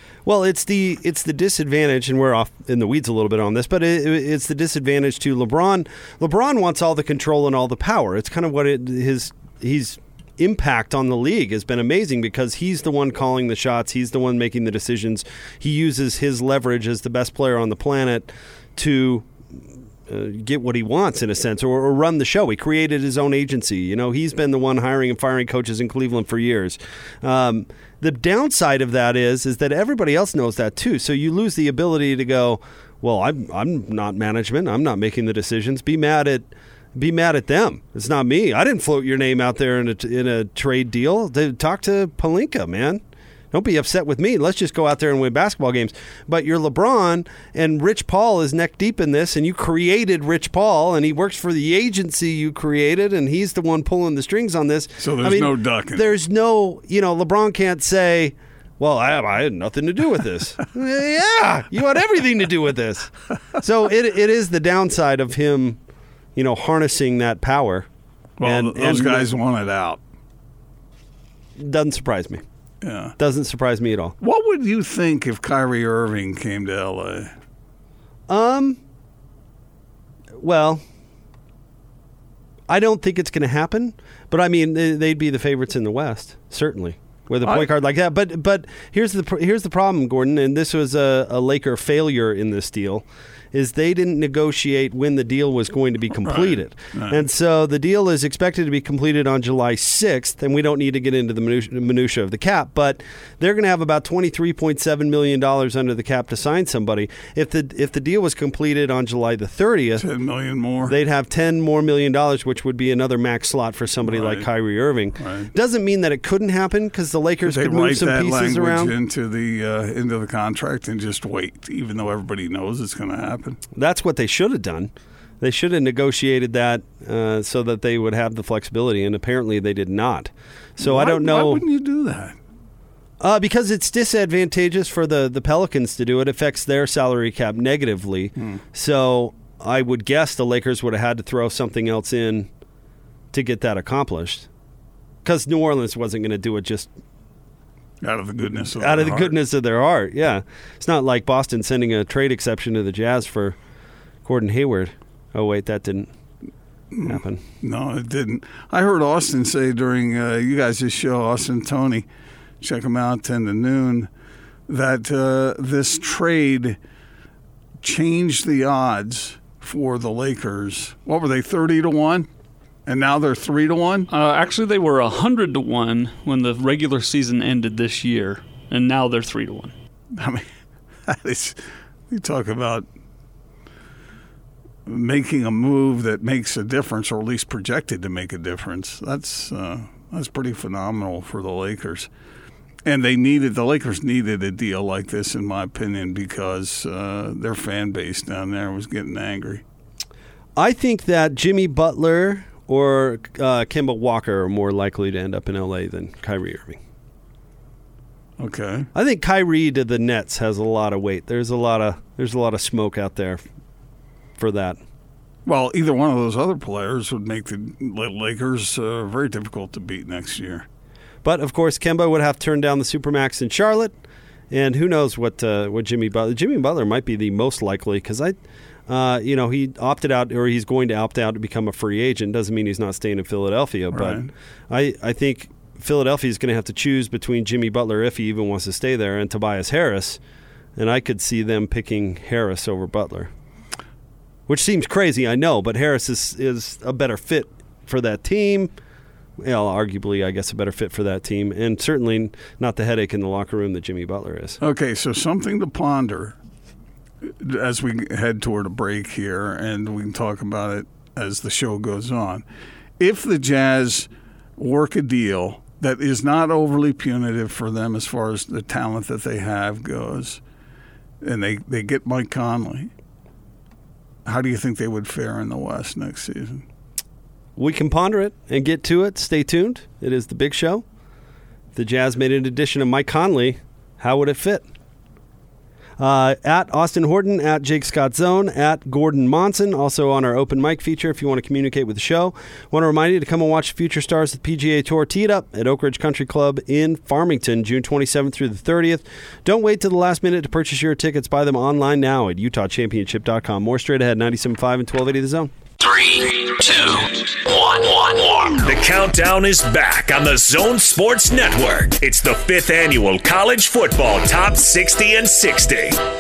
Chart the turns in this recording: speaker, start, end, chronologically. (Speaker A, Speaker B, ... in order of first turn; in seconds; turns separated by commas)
Speaker A: 0.2-65.8, Speaker B: 55.0-56.0, Speaker A: 66.3-67.9, Speaker B: 68.4-70.0, Speaker A: 68.4-69.3, Speaker A: 71.6-72.4, Speaker B: 72.8-73.1, Speaker A: 73.2-74.2, Speaker B: 74.2-77.3, Speaker A: 78.3-78.8, Speaker A: 80.3-80.8, Speaker A: 82.7-110.0, Speaker B: 87.4-87.7, Speaker B: 96.2-97.2, Speaker B: 110.0-110.9, Speaker A: 110.8-119.0, Speaker B: 114.0-114.5, Speaker B: 115.2-115.5, Speaker B: 117.4-123.6, Speaker A: 123.7-131.6, Speaker B: 130.8-132.3, Speaker A: 133.2-142.5, Speaker A: 143.3-144.5, Speaker A: 145.2-146.9, Speaker B: 148.0-149.3, Speaker A: 148.8-153.6, Speaker A: 154.2-156.1, Speaker B: 156.9-162.1, Speaker A: 157.0-157.4, Speaker B: 162.6-164.1, Speaker B: 164.7-166.8, Speaker B: 167.8-172.3, Speaker B: 172.8-174.1, Speaker C: 174.1-179.7, Speaker B: 180.2-180.4, Speaker B: 181.1-181.6, Speaker B: 182.1-182.8, Speaker B: 184.8-192.1, Speaker B: 192.8-199.6, Speaker A: 200.6-206.8, Speaker B: 208.4-208.9, Speaker A: 208.9-213.4, Speaker A: 214.4-214.8, Speaker B: 215.4-220.7, Speaker A: 221.2-223.9, Speaker A: 224.5-228.3, Speaker A: 228.9-240.2, Speaker B: 233.9-234.3, Speaker A: 240.8-243.3, Speaker A: 244.5-248.7, Speaker A: 249.4-254.6, Speaker B: 254.6-256.4, Speaker B: 257.4-262.4, Speaker B: 263.0-270.4, Speaker B: 271.2-272.9, Speaker B: 274.2-276.6, Speaker A: 277.6-280.8, Speaker A: 281.7-284.6, Speaker A: 286.0-305.5, Speaker D: 305.8-316.0